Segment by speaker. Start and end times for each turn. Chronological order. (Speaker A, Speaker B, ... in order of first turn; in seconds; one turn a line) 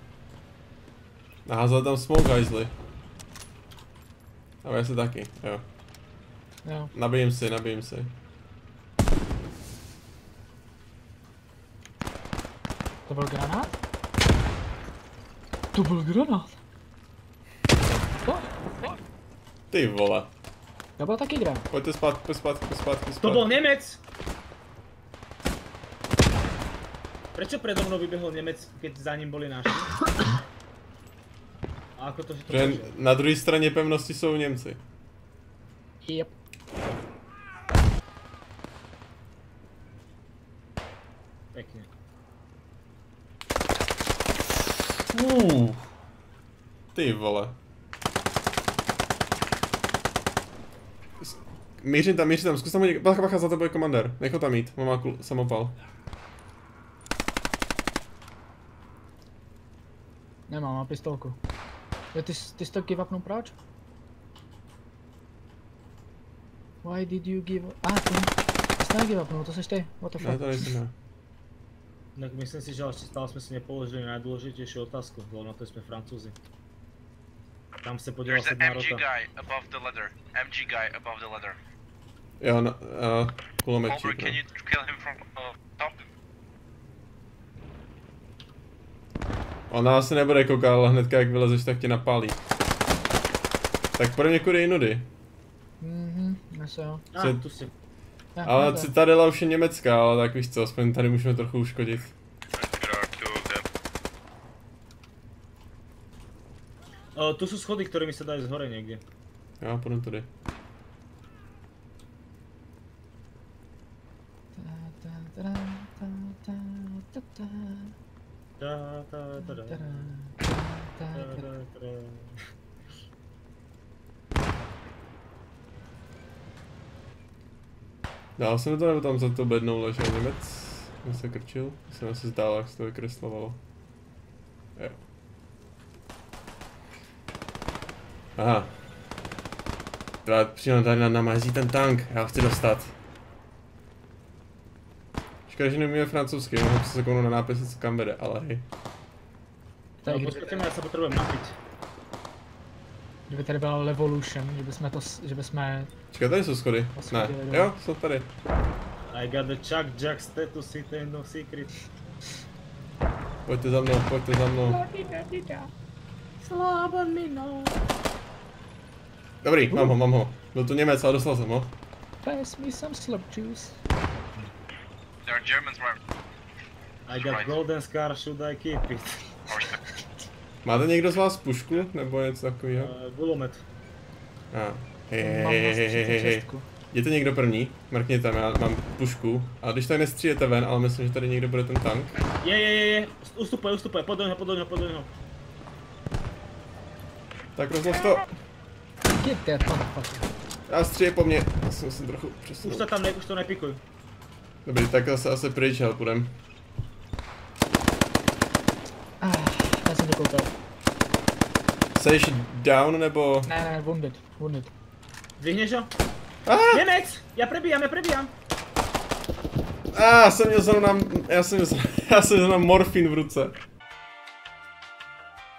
Speaker A: 1.4-2.7
Speaker A: 4.6-5.6
Speaker B: 6.6-6.9
Speaker A: 6.9-8.1
Speaker B: 13.1-13.7
Speaker B: 15.7-16.6
Speaker B: 18.2-19.0
Speaker A: 19.7-20.3
Speaker B: 21.0-21.7
Speaker A: 21.7-23.4
Speaker C: 23.2-24.0
Speaker C: 27.4-29.9
Speaker C: 32.0-32.9
Speaker A: 32.5-34.8
Speaker B: 36.0-36.3
Speaker C: 41.5-41.9
Speaker A: 45.0-45.9
Speaker A: 46.9-47.6
Speaker A: 51.2-55.8
Speaker B: 60.5-61.4
Speaker B: 62.1-63.5
Speaker B: 66.8-70.7
Speaker A: 70.2-70.9
Speaker C: 72.2-76.3
Speaker C: 77.8-79.0
Speaker D: 78.2-81.6
Speaker A: 82.4-84.4
Speaker D: 83.9-86.0
Speaker A: 89.7-92.4
Speaker A: 94.0-95.1
Speaker B: 95.8-97.1
Speaker C: 97.1-97.7
Speaker A: 97.2-97.4
Speaker B: 98.3-98.9
Speaker A: 98.4-102.1
Speaker D: 102.6-103.6
Speaker C: 107.2-109.0
Speaker A: 109.6-110.3
Speaker B: 114.5-117.9
Speaker C: 118.6-120.2
Speaker B: 119.4-121.4
Speaker C: 121.1-122.3
Speaker A: 128.4-133.6
Speaker A: 134.8-135.0
Speaker A: 138.4-138.7
Speaker A: 140.2-142.9
Speaker A: 145.5-148.7
Speaker B: 150.0-150.6
Speaker C: 150.0-151.6
Speaker B: 153.3-155.9
Speaker A: 156.1-158.3
Speaker B: 156.9-157.7
Speaker C: 159.1-161.7
Speaker A: 163.4-164.8
Speaker B: 164.6-165.7
Speaker C: 166.4-167.8
Speaker A: 169.4-171.8
Speaker B: 169.7-170.0
Speaker B: 172.2-173.8
Speaker D: 175.2-176.0
Speaker C: 177.1-179.4
Speaker D: 177.1-177.6
Speaker D: 179.5-179.8
Speaker A: 180.6-182.9
Speaker C: 182.8-183.6
Speaker A: 184.5-192.2
Speaker B: 185.2-186.7
Speaker C: 192.4-195.1
Speaker A: 197.6-198.3
Speaker B: 199.1-200.3
Speaker A: 200.7-202.9
Speaker C: 202.6-203.8
Speaker A: 204.6-206.4
Speaker B: 209.2-210.5
Speaker A: 211.9-213.5
Speaker B: 213.4-214.7
Speaker C: 215.4-215.9
Speaker A: 216.4-216.8
Speaker C: 216.7-218.3
Speaker A: 219.9-223.6